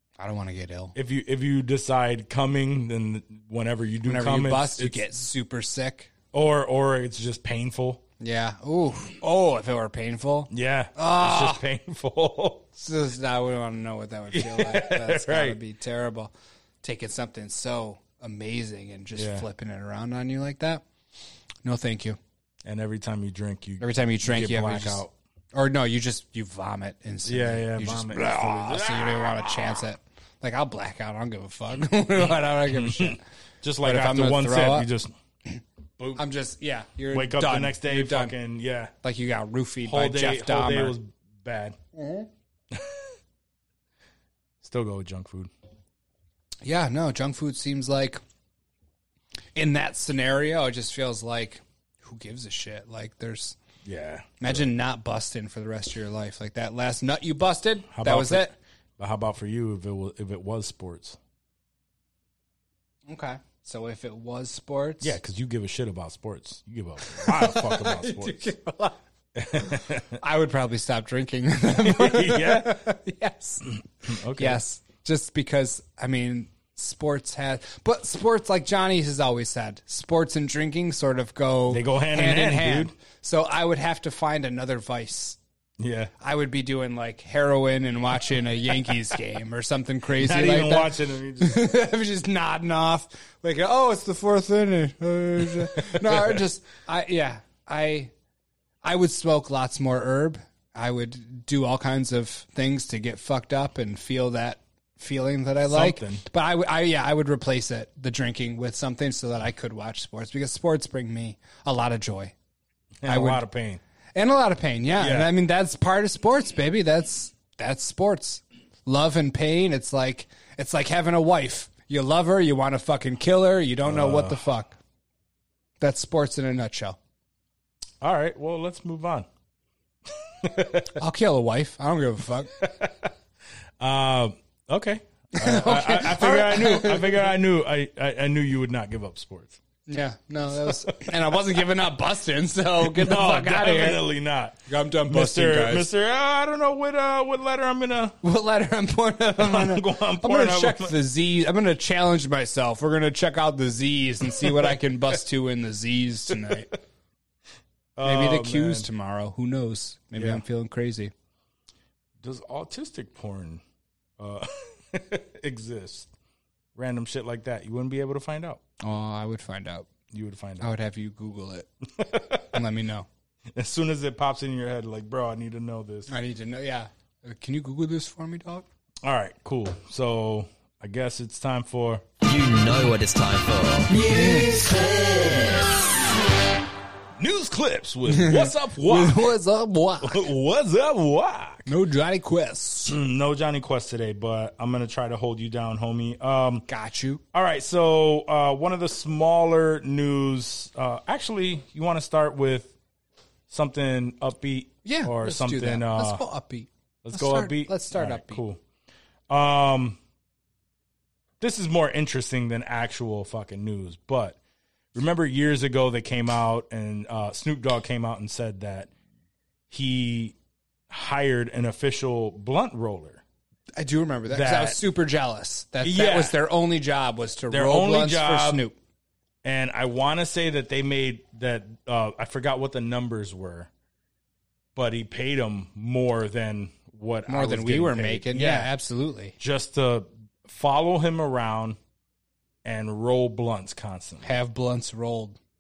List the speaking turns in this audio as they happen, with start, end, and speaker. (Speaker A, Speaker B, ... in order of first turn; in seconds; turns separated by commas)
Speaker A: 0.2-0.9, Speaker B: 0.9-5.0, Speaker A: 4.0-6.1, Speaker B: 6.3-8.0, Speaker A: 8.2-11.6, Speaker B: 10.5-12.7, Speaker A: 12.8-20.8, Speaker B: 14.3-15.6, Speaker B: 19.2-19.5, Speaker A: 21.6-22.2, Speaker B: 22.6-25.1, Speaker A: 23.8-25.0, Speaker A: 25.5-33.2, Speaker B: 27.2-29.8, Speaker B: 32.7-35.1, Speaker A: 33.8-34.9, Speaker B: 36.0-36.2, Speaker A: 36.2-38.3, Speaker B: 37.1-38.9, Speaker A: 39.0-41.0, Speaker B: 39.8-41.8, Speaker A: 41.9-42.3, Speaker B: 42.7-43.1, Speaker B: 44.6-45.5, Speaker A: 46.6-48.2, Speaker A: 49.5-53.6, Speaker B: 53.8-54.7, Speaker A: 54.4-58.5, Speaker B: 57.9-61.2, Speaker A: 63.1-65.2, Speaker B: 65.0-68.5, Speaker A: 67.0-69.0, Speaker B: 69.4-70.2, Speaker A: 69.5-85.4, Speaker B: 71.7-72.9, Speaker B: 74.0-74.6, Speaker B: 81.7-82.9, Speaker B: 85.8-86.1, Speaker A: 86.2-98.1, Speaker B: 90.2-91.7, Speaker B: 95.7-96.4, Speaker A: 98.8-112.3, Speaker B: 105.7-106.2, Speaker B: 113.0-113.8, Speaker A: 113.1-113.5, Speaker A: 114.2-124.8, Speaker B: 115.0-115.3, Speaker B: 123.8-124.4, Speaker A: 125.8-127.0, Speaker B: 128.0-129.3, Speaker B: 130.3-131.0, Speaker A: 130.9-132.6, Speaker B: 132.6-133.1, Speaker B: 133.8-139.6, Speaker A: 135.3-137.3, Speaker A: 139.9-144.0, Speaker B: 142.8-148.2, Speaker A: 144.7-145.9, Speaker A: 148.2-156.7, Speaker B: 149.4-151.0, Speaker B: 158.0-158.9, Speaker A: 158.0-161.1, Speaker B: 160.2-160.4, Speaker B: 162.2-163.6, Speaker B: 164.2-166.1, Speaker B: 166.8-168.6, Speaker A: 168.8-169.9, Speaker B: 170.1-170.7, Speaker A: 170.6-171.7, Speaker B: 172.0-172.5, Speaker A: 172.4-173.1, Speaker B: 173.6-176.1, Speaker A: 176.1-178.7, Speaker B: 179.0-182.1, Speaker C: 182.2-185.5, Speaker A: 184.0-184.7, Speaker B: 184.0-185.6, Speaker B: 187.2-189.3, Speaker A: 188.1-190.3, Speaker B: 190.0-191.7, Speaker A: 191.7-193.0, Speaker B: 192.9-196.7, Speaker A: 196.7-197.2, Speaker B: 197.3-202.7, Speaker B: 203.5-206.2, Speaker A: 204.8-208.4, Speaker B: 207.0-208.6, Speaker B: 209.3-210.0, Speaker B: 211.4-214.4, Speaker B: 214.9-218.9, Speaker B: 219.7-220.3, Speaker B: 220.9-223.2, Speaker A: 223.8-228.8, Speaker B: 224.3-224.8, Speaker B: 225.8-226.4, Speaker B: 227.5-228.7, Speaker B: 229.4-233.7, Speaker B: 234.8-238.7, Speaker A: 237.3-239.4, Speaker B: 239.4-241.8, Speaker B: 242.7-244.3, Speaker A: 244.2-245.4